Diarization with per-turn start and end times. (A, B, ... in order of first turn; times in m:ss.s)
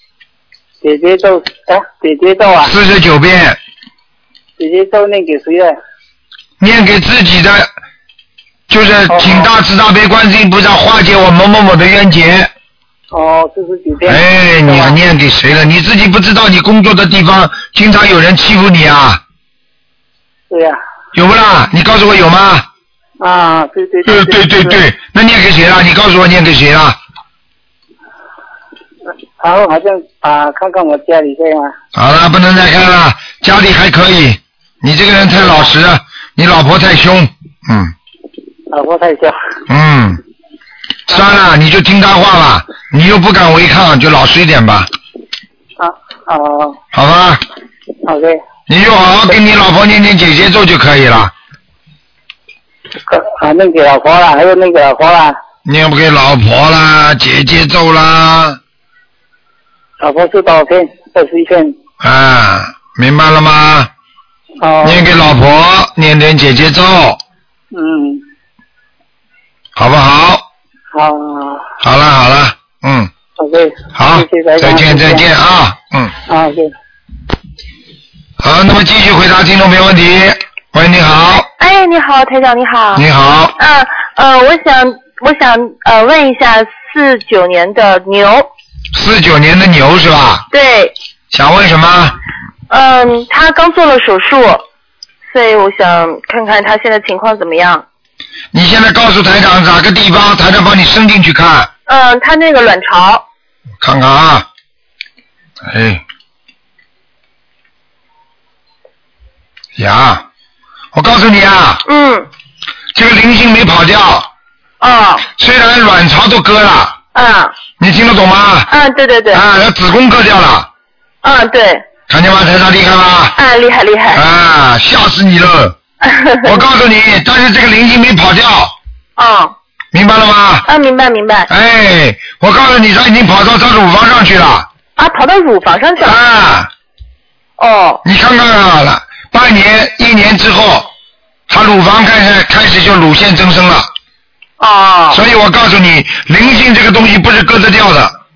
0:00.8-0:02.7 A
0:02.6-0:03.6 B
0:04.6-0:05.7 A
0:06.6-0:07.7 B
0:08.7-0:12.5 B
0:09.1-0:09.5 A
0:13.1-0:15.0 A
0:14.0-0:19.2 B
0:20.5-0:20.8 A
0:21.1-0:22.6 B
0:23.2-0:24.8 A
0:24.0-0:27.0 B
0:29.4-0:31.7 A
0:31.9-0:37.9 B
0:38.7-0:39.4 A
0:39.7-0:40.2 B
0:41.1-0:44.9 B
0:45.8-0:46.8 A
0:46.9-0:47.4 B
0:48.0-0:48.4 A
0:48.7-0:51.3 B
0:53.1-0:55.3 A
0:55.6-0:58.6 B
1:00.0-1:01.8 A
1:02.0-1:03.9 B
1:04.6-1:05.0 A
1:04.8-1:07.2 B
1:07.7-1:08.2 A
1:09.8-1:10.4 B
1:10.9-1:11.7 A
1:11.8-1:13.1 B
1:13.4-1:15.2 A
1:13.9-1:16.2 B
1:16.3-1:16.7 A
1:18.4-1:21.5 B
1:21.6-1:23.0 C
1:22.9-1:23.5 B
1:23.6-1:28.5 C
1:28.9-1:30.4 B
1:30.5-1:30.9 C
1:31.3-1:32.2 B
1:32.7-1:34.6 C
1:35.3-1:37.8 C
1:38.5-1:41.7 B
1:41.9-1:43.2 C
1:43.8-1:44.4 B
1:45.6-1:46.0 B
1:49.8-1:50.2 B
1:50.9-1:51.8 B
1:51.8-1:52.3 C
1:52.9-1:54.3 B
1:54.8-1:55.2 C
1:55.3-1:57.0 B
1:57.1-1:57.5 C
1:57.8-1:58.7 B
1:58.7-1:59.4 C
1:59.3-2:00.7 B
2:01.2-2:01.8 C
2:02.1-2:03.4 B
2:03.4-2:04.2 C
2:04.1-2:05.8 B
2:06.0-2:06.6 C
2:06.4-2:08.7 B
2:09.2-2:09.5 C
2:09.9-2:10.7 B
2:10.6-2:11.5 C
2:11.5-2:14.7 B
2:15.0-2:16.2 C
2:16.0-2:16.7 B
2:17.6-2:18.0 C
2:18.0-2:20.9 B
2:21.5-2:23.9 B
2:24.6-2:25.2 C
2:25.1-2:28.2 B